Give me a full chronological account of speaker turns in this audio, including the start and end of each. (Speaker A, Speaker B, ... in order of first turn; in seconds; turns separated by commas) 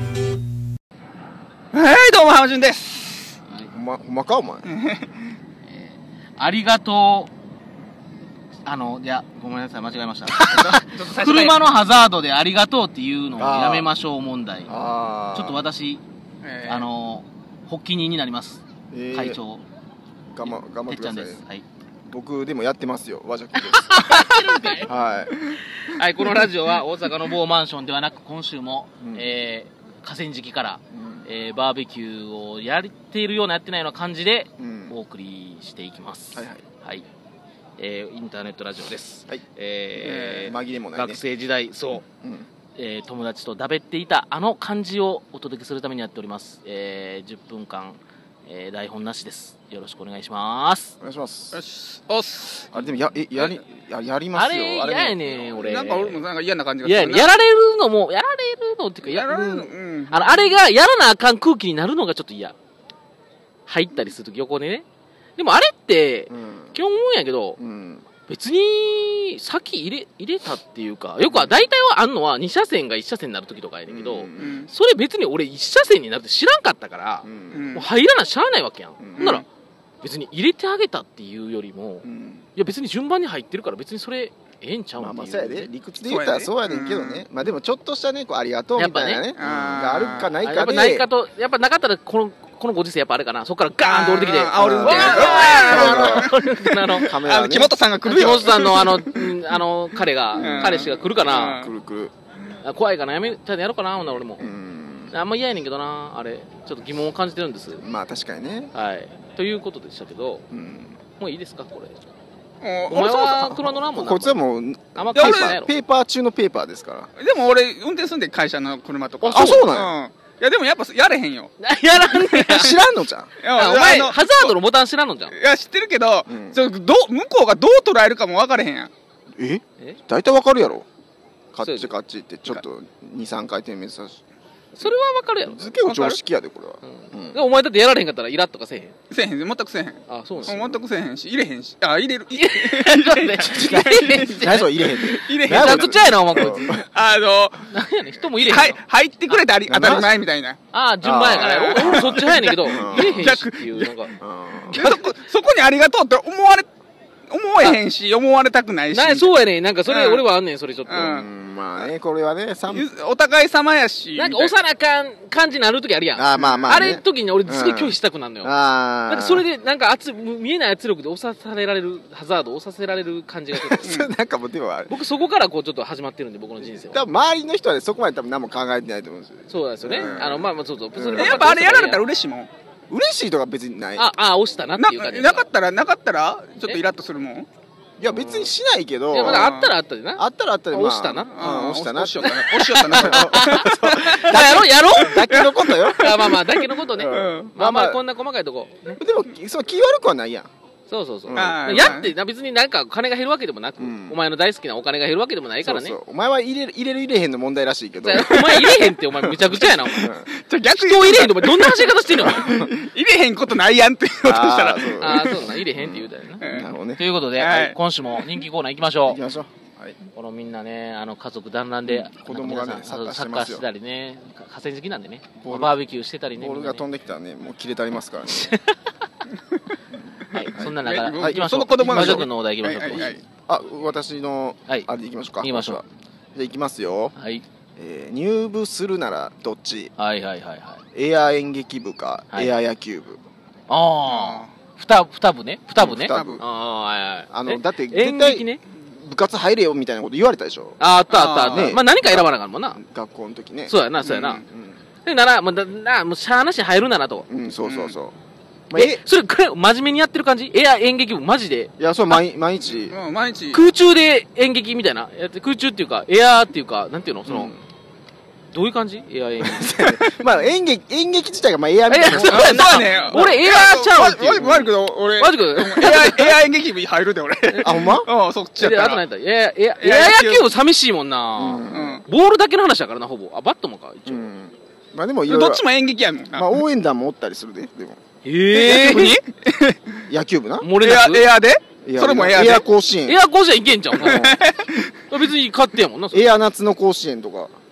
Speaker A: 1.7-3.4, Speaker B: 3.7-4.7, Speaker A: 4.7-5.2, Speaker C: 5.8-7.3, Speaker C: 8.7-14.7, Speaker A: 10.4-11.6, Speaker B: 13.4-13.9, Speaker B: 14.7-15.7, Speaker C: 15.3-16.0, Speaker A: 16.4-16.9, Speaker C: 16.6-19.6, Speaker B: 18.9-19.4, Speaker B: 20.3-21.4, Speaker C: 20.4-21.6, Speaker B: 22.1-25.6, Speaker C: 23.5-24.9, Speaker C: 25.7-37.1, Speaker B: 29.0-29.3, Speaker B: 30.9-31.3, Speaker B: 34.6-35.0, Speaker B: 36.3-36.6, Speaker C: 37.8-42.0, Speaker A: 40.0-40.5, Speaker B: 40.3-41.2, Speaker B: 42.1-42.5, Speaker C: 42.8-51.0, Speaker B: 51.0-51.6, Speaker A: 51.5-53.6, Speaker B: 52.7-55.7, Speaker C: 54.3-56.2, Speaker A: 55.5-57.3, Speaker C: 56.8-62.5, Speaker A: 59.0-60.4, Speaker C: 63.7-64.9, Speaker C: 65.4-67.6, Speaker B: 66.3-66.8, Speaker B: 67.6-68.1, Speaker C: 68.3-79.5, Speaker B: 71.2-71.7, Speaker B: 73.9-74.7, Speaker A: 74.4-74.7, Speaker B: 77.2-77.7, Speaker A: 77.5-77.9, Speaker B: 79.0-79.4, Speaker A: 79.2-79.5, Speaker C: 80.0-82.0, Speaker B: 82.0-82.5, Speaker C: 82.6-85.7, Speaker B: 85.0-91.1, Speaker A: 86.0-87.2, Speaker C: 88.8-89.3, Speaker A: 89.3-90.3, Speaker C: 90.4-97.2, Speaker A: 93.8-96.3, Speaker B: 94.5-96.4, Speaker A: 96.9-99.3, Speaker B: 96.9-97.7, Speaker C: 98.0-101.6, Speaker A: 100.3-101.7, Speaker B: 100.4-102.1, Speaker C: 102.6-104.5, Speaker B: 104.4-105.1, Speaker C: 105.1-107.8, Speaker B: 107.8-108.7, Speaker C: 108.7-110.5, Speaker B: 110.5-111.0, Speaker C: 111.2-112.0, Speaker A: 112.6-113.3, Speaker C: 112.9-114.4, Speaker B: 113.0-117.1, Speaker C: 115.0-115.7, Speaker A: 115.1-115.5, Speaker A: 117.2-121.5, Speaker B: 119.2-119.9, Speaker C: 121.6-122.8, Speaker A: 122.1-122.8, Speaker B: 122.5-123.3, Speaker A: 123.4-124.6, Speaker C: 123.5-125.4, Speaker A: 125.3-128.9, Speaker B: 126.3-126.6, Speaker B: 129.4-130.9, Speaker B: 131.5-134.2, Speaker C: 131.6-131.9, Speaker C: 134.8-135.7, Speaker B: 135.4-137.4, Speaker A: 135.8-136.2, Speaker C: 136.8-138.9, Speaker A: 139.1-147.7, Speaker C: 140.1-140.6, Speaker B: 140.4-140.8, Speaker C: 142.3-146.8, Speaker B: 143.5-146.8, Speaker C: 147.7-149.4, Speaker A: 148.4-150.6, Speaker B: 149.7-150.2, Speaker C: 150.7-154.2, Speaker B: 151.0-153.3, Speaker A: 151.3-154.1, Speaker B: 154.2-154.9, Speaker C: 154.7-155.0, Speaker A: 154.7-156.7, Speaker A: 157.3-160.2, Speaker C: 158.9-161.2, Speaker A: 160.9-161.3, Speaker B: 161.0-162.9, Speaker A: 162.7-164.5, Speaker C: 164.2-168.6, Speaker B: 166.2-169.4, Speaker A: 166.4-166.8, Speaker C: 169.1-174.0, Speaker B: 173.5-174.9, Speaker A: 173.8-174.1, Speaker C: 174.9-177.1, Speaker B: 176.6-181.5, Speaker C: 179.5-182.0, Speaker A: 181.2-182.5, Speaker B: 182.9-184.1, Speaker C: 184.0-185.5, Speaker A: 184.8-187.5, Speaker B: 188.0-189.5, Speaker C: 188.1-188.5, Speaker C: 189.1-191.6, Speaker A: 189.1-189.7, Speaker B: 190.2-196.4, Speaker A: 191.3-197.5, Speaker C: 192.2-195.3, Speaker C: 196.0-199.0, Speaker B: 196.9-198.0, Speaker B: 199.0-200.5, Speaker C: 200.9-206.0, Speaker B: 201.3-202.1, Speaker A: 201.3-202.1, Speaker B: 203.8-204.2, Speaker B: 205.6-208.7, Speaker C: 208.0-210.1, Speaker A: 208.1-215.6, Speaker B: 210.0-210.3, Speaker C: 210.7-212.5, Speaker B: 212.1-212.7, Speaker B: 214.2-217.0, Speaker C: 215.0-219.2, Speaker A: 216.4-216.7, Speaker A: 217.4-218.3, Speaker B: 219.1-220.0, Speaker C: 220.1-226.8, Speaker B: 221.9-223.7, Speaker B: 225.4-225.8, Speaker B: 226.4-228.5, Speaker C: 228.3-228.8, Speaker B: 229.9-232.3, Speaker C: 230.3-233.2, Speaker A: 230.6-233.2, Speaker B: 232.9-237.1, Speaker C: 235.4-235.8, Speaker C: 237.2-237.4, Speaker B: 237.8-239.9, Speaker C: 240.0-240.8, Speaker B: 240.9-243.2, Speaker C: 243.7-248.6, Speaker A: 244.0-244.5, Speaker B: 245.8-246.4, Speaker A: 246.1-246.4, Speaker B: 247.3-250.8, Speaker C: 250.8-252.8, Speaker A: 251.1-251.8, Speaker B: 251.4-254.8, Speaker C: 253.7-254.4, Speaker A: 254.1-254.4, Speaker C: 255.1-257.3, Speaker B: 257.3-258.1, Speaker A: 257.6-258.0, Speaker B: 258.7-259.0, Speaker C: 258.7-261.7, Speaker B: 261.8-263.0, Speaker A: 262.9-263.6, Speaker C: 263.5-267.5, Speaker B: 267.3-267.6, Speaker C: 268.5-269.7, Speaker B: 269.4-273.3, Speaker C: 271.9-276.4, Speaker A: 272.1-279.0, Speaker B: 274.4-274.7, Speaker B: 277.6-278.1, Speaker C: 278.6-284.3, Speaker A: 279.8-280.5, Speaker B: 281.4-282.0, Speaker A: 281.7-282.1, Speaker B: 284.1-285.6, Speaker A: 285.3-286.6, Speaker B: 286.3-288.0, Speaker C: 288.2-289.2, Speaker A: 288.5-290.0, Speaker B: 290.1-290.7, Speaker C: 290.6-291.3, Speaker A: 290.8-292.7, Speaker B: 291.9-293.2, Speaker C: 293.1-294.3, Speaker B: 294.0-294.6, Speaker A: 294.0-294.9, Speaker C: 295.1-296.3, Speaker B: 296.1-297.5